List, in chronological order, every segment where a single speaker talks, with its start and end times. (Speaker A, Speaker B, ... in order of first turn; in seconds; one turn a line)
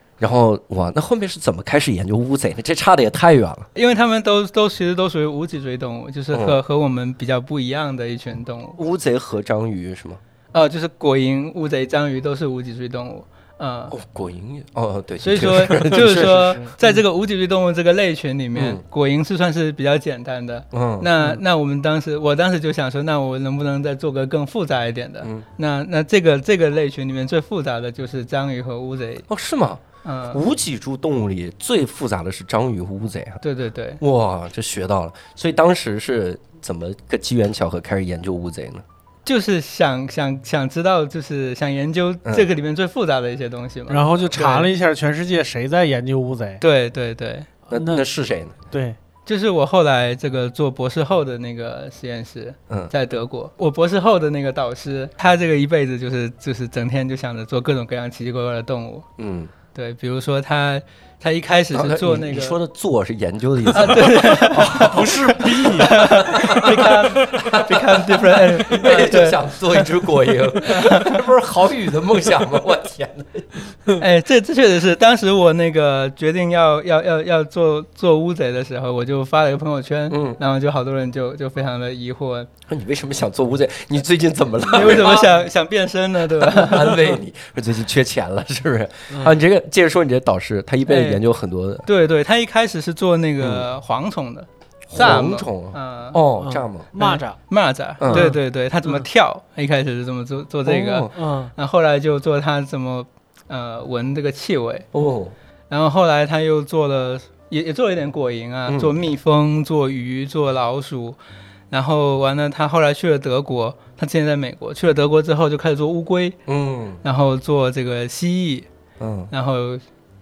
Speaker A: 0.2-3.7
Speaker B: 3.8-8.8
Speaker A: 6.3-6.6
Speaker A: 8.8-10.2
Speaker B: 10.5-13.9
Speaker A: 13.9-16.7
Speaker B: 15.2-29.3
Speaker C: 15.9-17.0
Speaker A: 18.5-18.8
Speaker A: 20.7-21.1
Speaker A: 29.3-33.4
Speaker B: 30.0-30.4
Speaker B: 33.4-34.0
Speaker A: 34.0-38.8
Speaker B: 39.2-44.7
Speaker C: 43.9-46.6
Speaker B: 46.6-47.5
Speaker C: 47.7-48.1
Speaker A: 47.7-48.5
Speaker C: 48.7-49.0
Speaker B: 49.2-59.1
Speaker A: 59.2-59.5
Speaker B: 59.7-62.6
Speaker A: 61.7-73.5
Speaker B: 63.7-69.8
Speaker C: 64.6-67.3
Speaker B: 70.6-71.2
Speaker B: 74.0-82.5
Speaker A: 80.1-80.4
Speaker A: 82.7-85.3
Speaker B: 84.7-87.0
Speaker A: 86.3-91.8
Speaker B: 90.9-91.2
Speaker B: 91.8-96.2
Speaker A: 93.4-93.7
Speaker A: 94.9-96.9
Speaker C: 96.4-97.4
Speaker B: 97.0-104.9
Speaker A: 98.0-98.3
Speaker C: 98.1-99.0
Speaker A: 100.7-101.1
Speaker C: 101.1-101.5
Speaker A: 104.9-105.3
Speaker B: 105.7-111.2
Speaker A: 108.7-108.9
Speaker B: 111.7-116.4
Speaker A: 116.5-117.0
Speaker B: 117.0-118.7
Speaker A: 119.0-119.3
Speaker B: 119.3-119.8